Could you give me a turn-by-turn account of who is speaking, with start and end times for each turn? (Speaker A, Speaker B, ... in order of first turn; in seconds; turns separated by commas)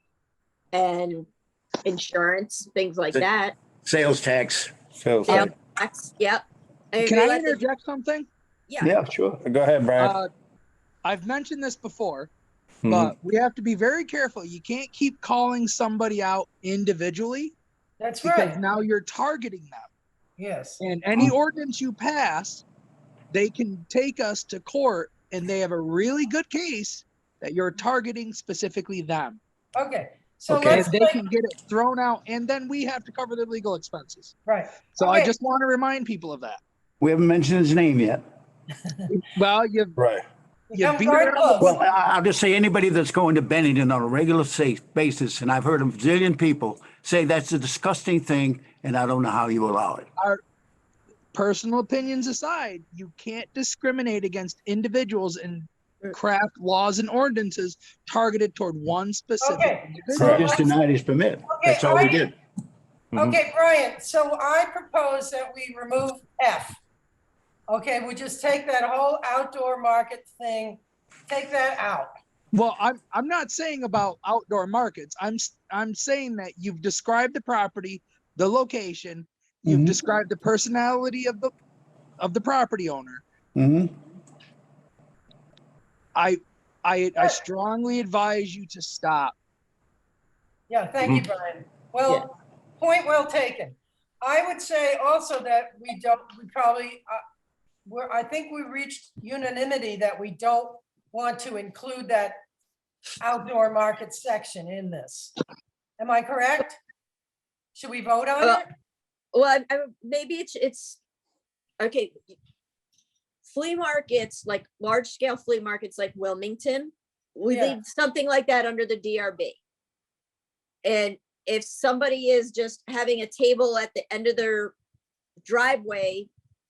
Speaker A: 0.7-1.3, Speaker A: 1.8-3.5, Speaker B: 3.8-4.7, Speaker C: 4.9-5.5, Speaker A: 5.2-7.7, Speaker D: 7.0-8.3, Speaker B: 8.8-9.4, Speaker C: 9.4-10.2, Speaker D: 10.0-10.3, Speaker D: 11.0-12.3, Speaker C: 12.8-13.1, Speaker D: 12.9-17.5, Speaker E: 18.0-18.5, Speaker D: 18.2-19.9, Speaker E: 20.4-20.8, Speaker D: 20.8-22.6, Speaker D: 23.3-29.4, Speaker E: 29.8-31.2, Speaker D: 30.5-34.3, Speaker E: 34.5-35.3, Speaker D: 34.9-36.6, Speaker B: 37.0-38.2, Speaker D: 39.1-40.0, Speaker C: 40.0-40.2, Speaker E: 40.7-41.8, Speaker D: 40.7-41.8, Speaker B: 41.6-50.1, Speaker D: 51.3-60.4, Speaker E: 59.4-60.7, Speaker B: 60.1-62.3, Speaker C: 60.1-60.5, Speaker E: 61.5-62.3, Speaker C: 63.1-63.4, Speaker E: 63.1-66.8, Speaker E: 67.7-72.1, Speaker D: 72.5-81.5, Speaker B: 79.7-80.0, Speaker D: 82.2-83.2, Speaker B: 83.5-83.9, Speaker D: 86.1-89.3, Speaker E: 90.7-97.2, Speaker E: 97.8-102.4, Speaker E: 103.2-105.3, Speaker E: 106.0-106.8, Speaker E: 107.7-108.7, Speaker A: 109.3-111.0, Speaker A: 111.8-112.1, Speaker A: 113.4-119.6, Speaker E: 117.5-117.8, Speaker A: 120.8-124.7, Speaker A: 125.4-126.3